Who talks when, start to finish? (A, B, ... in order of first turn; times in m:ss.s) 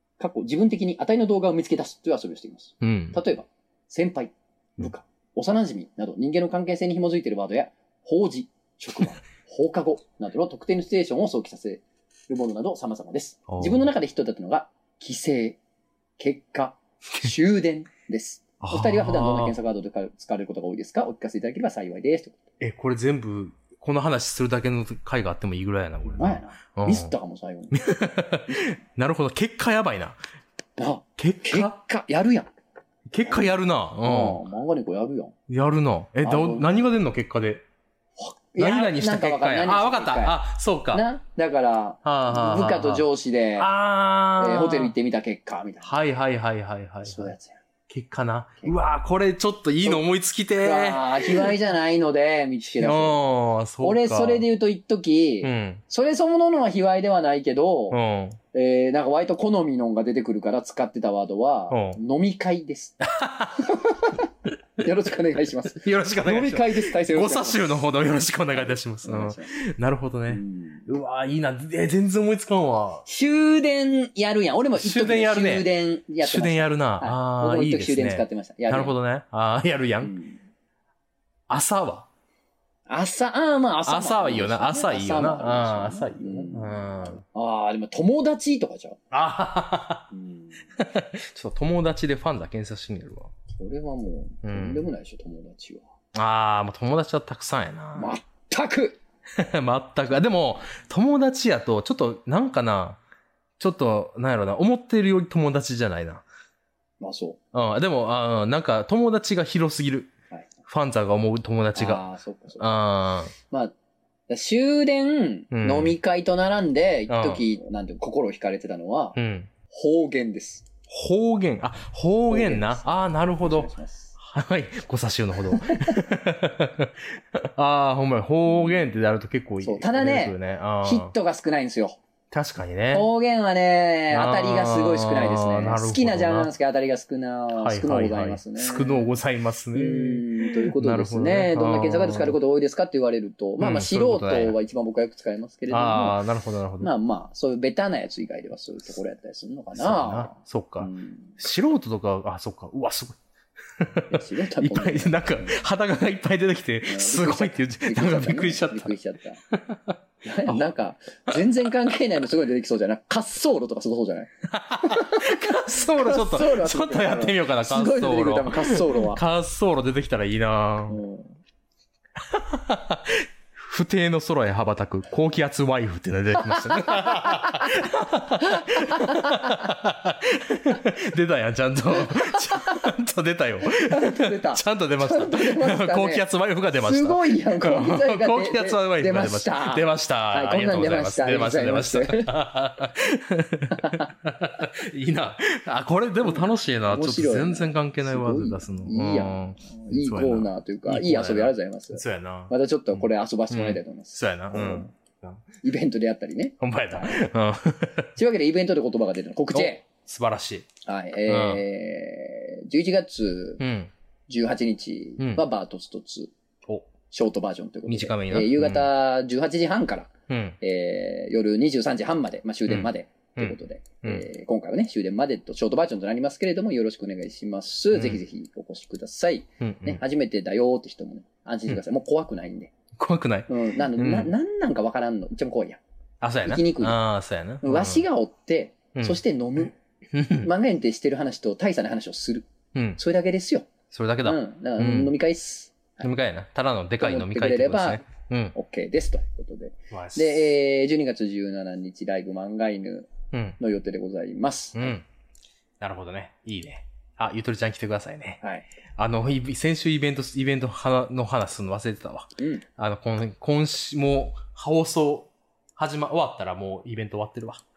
0:00.2-0:15.6 A
0:02.8-0:03.2 B
0:13.5-0:13.9 B
0:16.2-0:22.4 A
0:18.6-0:19.6 B
0:22.6-0:27.1 B
0:26.0-0:27.9 A
0:27.7-0:30.2 B
0:28.5-0:28.8 A
0:30.8-0:32.5 A
0:31.2-0:31.7 B
0:33.1-0:34.4 B
0:33.2-0:35.4 A
0:35.5-0:37.6 B
0:36.2-0:36.8 A
0:38.2-0:40.4 A
0:38.6-0:41.0 B
0:40.9-0:43.7 A
0:42.0-0:43.1 B
0:43.6-0:44.9 B
0:44.4-0:45.9 A
0:45.8-0:47.3 B
0:47.0-0:47.6 A
0:47.9-0:51.6 B
0:50.6-0:53.2 A
0:52.7-0:54.4 B
0:53.8-0:58.0 A
0:55.4-0:55.8 B
0:57.9-0:58.4 B
0:58.5-1:03.0 A
1:01.7-1:02.0 B
1:03.0-1:03.7 B
1:03.6-1:04.3 A
1:04.8-1:07.8 A
1:05.4-1:13.0 B
1:08.5-1:09.5 A
1:10.3-1:10.9 A
1:13.1-1:19.0 A
1:14.8-1:15.7 B
1:16.2-1:20.1 B
1:20.0-1:20.4 A
1:21.5-1:22.1 B
1:22.9-1:29.0 A
1:23.9-1:27.2 B
1:29.1-1:30.1 B
1:30.1-1:30.6 A
1:30.8-1:33.3 B
1:33.6-1:35.8 A
1:34.4-1:34.9 B
1:36.1-1:38.1 B
1:38.0-1:39.0 A
1:39.4-1:43.0 B
1:43.6-1:46.2 B
1:47.0-1:47.4 A
1:47.5-1:50.1 B
1:50.7-1:52.0 B
1:51.7-1:52.8 A
1:52.6-1:53.3 B
1:53.4-1:53.7 A
1:54.3-1:59.2 A
1:55.5-1:56.0 B
1:57.1-1:57.4 B
1:59.2-1:59.5 B
1:59.7-2:00.7 A
2:00.9-2:11.1 B
2:02.3-2:04.2 A
2:05.5-2:06.0 A
2:08.5-2:08.8 A
2:09.6-2:12.0 A
2:12.3-2:13.1 B
2:12.9-2:19.1 A
2:14.1-2:16.5 B
2:17.5-2:22.4 B
2:19.7-2:26.2 A
2:23.6-2:24.6 B
2:25.7-2:26.9 B
2:26.8-2:31.4 A
2:29.8-2:33.2 B
2:33.8-2:38.9 B
2:34.1-2:35.6 A
2:36.8-2:39.4 A
2:39.5-2:40.7 B
2:40.2-2:49.2 A
2:44.5-2:51.0 B
2:50.9-2:51.4 A
2:52.2-3:25.4 B
2:56.5-2:59.7 A
3:02.0-3:02.9 A
3:03.7-3:06.2 A
3:06.7-3:12.3 A
3:13.7-3:14.1 A
3:16.2-3:25.0 A
3:25.6-3:27.2 A
3:26.6-3:28.0 B
3:28.2-3:29.8 A
3:29.5-3:30.7 B
3:30.8-3:33.6 A
3:31.3-3:31.6 B
3:33.6-3:33.9 B
3:34.3-3:36.3 A
3:37.1-3:52.7 A
3:37.9-3:38.9 B
3:40.3-3:40.6 B
3:42.7-3:44.3 B
3:47.9-3:48.2 B
3:49.6-3:50.0 B
3:53.0-3:54.3 B
3:53.5-3:55.8 A
3:56.2-3:58.0 B
3:56.4-3:57.0 A
3:57.6-3:59.8 A
4:00.1-4:00.5 B
4:00.3-4:03.7 A
4:03.9-4:05.1 B
4:04.2-4:06.1 A
4:06.0-4:08.6 B
4:07.0-4:15.0 A
4:09.9-4:10.5 B
4:13.3-4:13.6 B
4:14.7-4:15.0 B
4:15.8-4:18.4 B
4:19.0-4:27.6 B
4:22.4-4:22.6 A